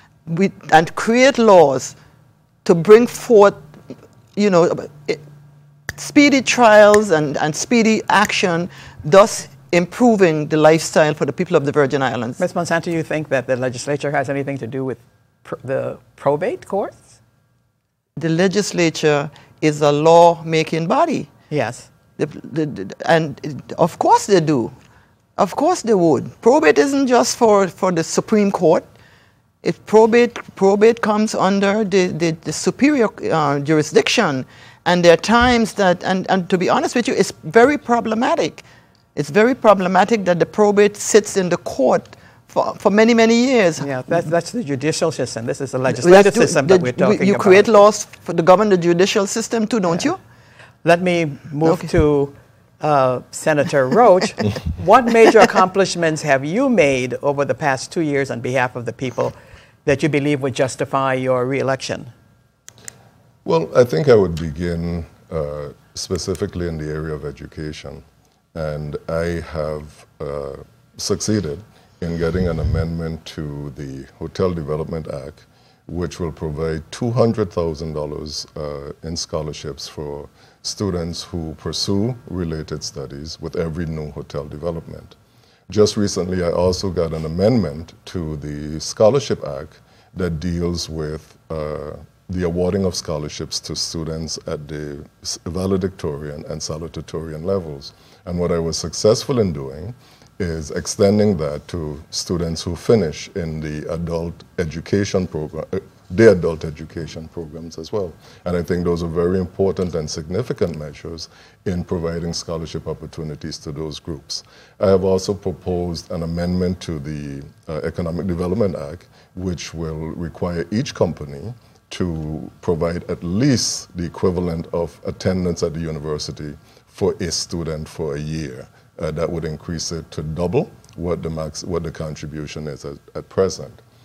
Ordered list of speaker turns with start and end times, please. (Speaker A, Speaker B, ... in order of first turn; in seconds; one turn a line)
Speaker A: 0.3-2.0
Speaker A: 2.6-3.6
Speaker A: 4.4-5.2
Speaker A: 6.0-12.4
Speaker B: 12.4-17.1
Speaker A: 18.2-21.3
Speaker B: 21.5-21.9
Speaker A: 22.2-24.7
Speaker A: 25.4-28.9
Speaker A: 29.6-38.6
Speaker A: 39.2-44.2
Speaker B: 43.8-47.7
Speaker A: 45.9-50.2
Speaker B: 50.9-62.1
Speaker C: 63.5-85.2
Speaker C: 85.7-133.8